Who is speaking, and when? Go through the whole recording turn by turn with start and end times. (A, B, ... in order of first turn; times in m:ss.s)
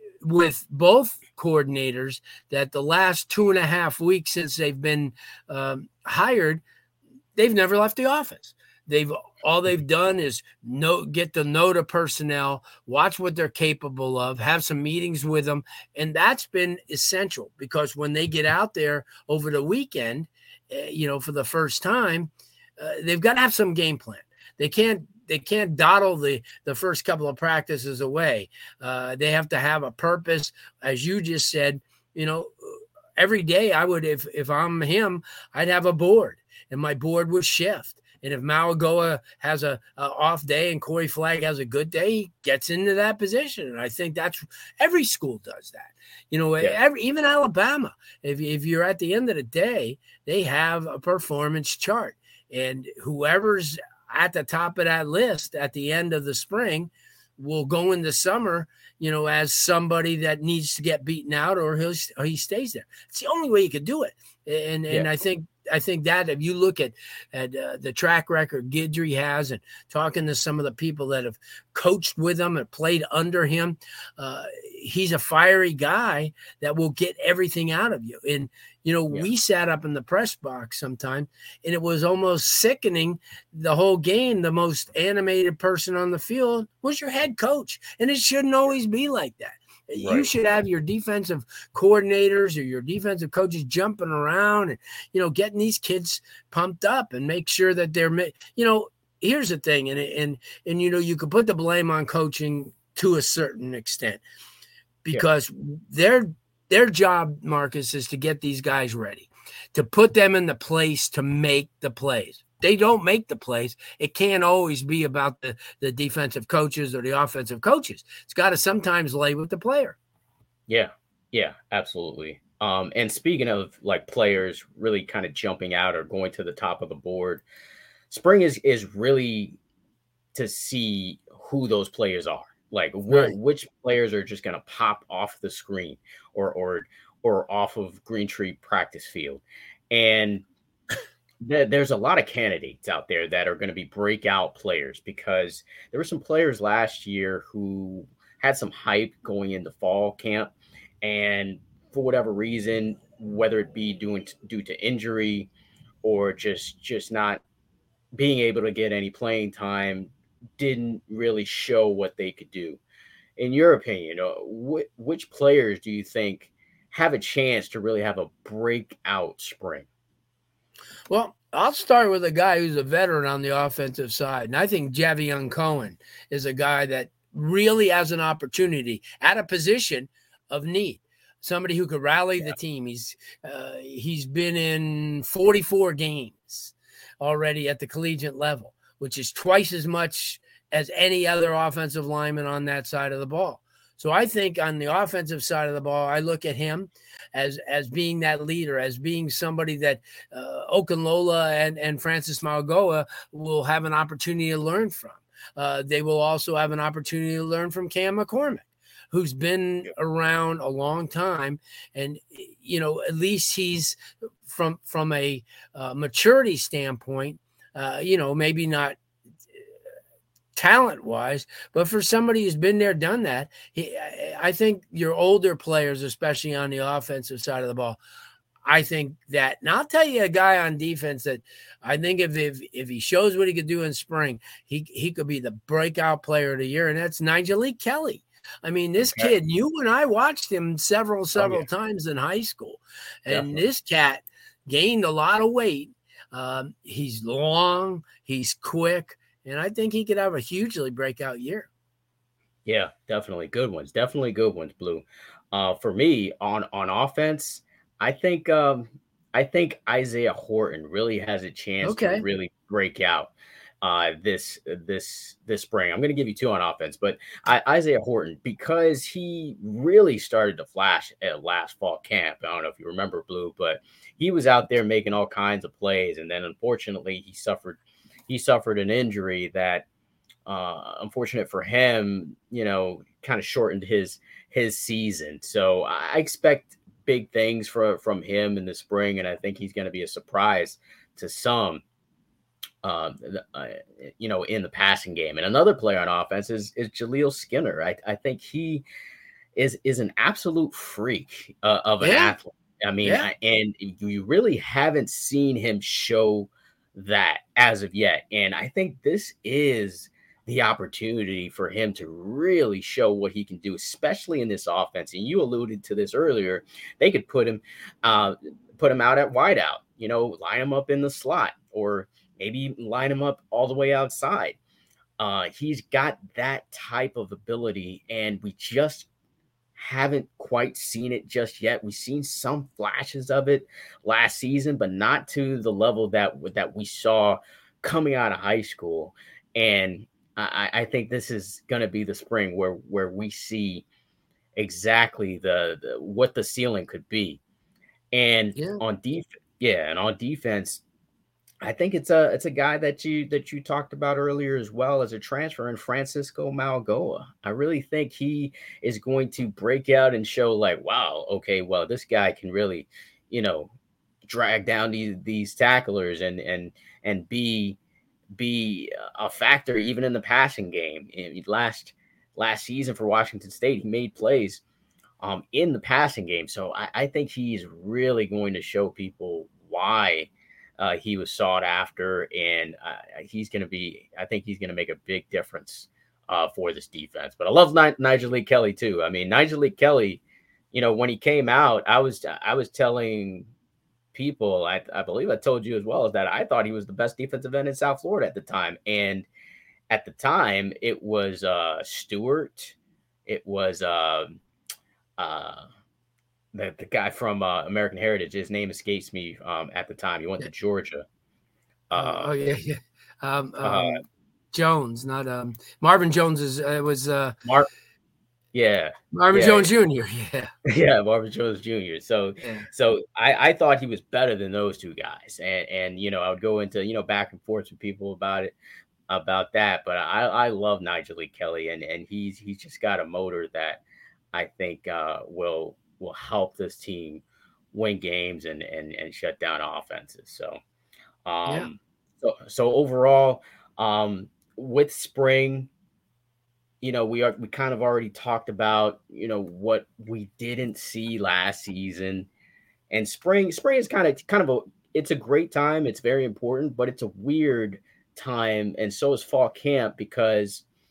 0:00.2-0:06.6 A
0:07.4-1:44.2 A
1:30.0-1:30.3 B
1:45.0-2:00.0 A
2:00.7-2:07.4 B
2:08.1-2:09.6 B
2:10.3-2:20.4 B
2:13.1-2:13.3 A
2:21.4-2:30.5 B
2:31.0-2:35.5 B
2:36.0-2:37.4 B
2:38.1-2:42.8 B
2:43.4-2:49.8 B
2:51.1-3:39.0 A
3:40.6-3:48.0 A
3:48.6-4:11.7 A
3:59.0-3:59.3 B
4:01.4-4:01.6 B
4:03.3-4:03.6 B
4:12.6-4:39.8 B
4:21.8-4:22.2 A
4:40.4-4:51.8 B
4:52.8-4:58.8 B
4:59.5-5:24.6 B
5:02.0-5:02.3 A
5:25.2-5:29.1 B
5:29.8-5:43.8 B
5:44.6-5:47.4 B
5:48.1-5:50.8 B
5:48.6-5:48.8 A
5:51.6-6:03.7 B
6:04.2-6:07.8 B
6:08.3-6:14.6 B
6:15.2-6:30.2 B
6:30.7-6:33.5 B
6:34.1-6:39.3 B
6:39.9-6:42.7 B
6:43.2-6:44.4 B
6:45.2-6:45.7 B
6:46.5-6:51.0 B
6:51.9-6:52.3 B
6:52.0-6:57.3 A
6:53.6-6:54.0 B
6:57.4-6:57.7 B
6:58.5-6:59.7 B
6:59.1-7:00.5 A
7:00.7-7:08.5 B
7:02.4-7:02.7 A
7:09.1-7:13.8 B
7:14.3-7:20.6 B
7:21.2-7:25.7 B
7:26.8-7:32.3 B
7:32.9-7:40.6 B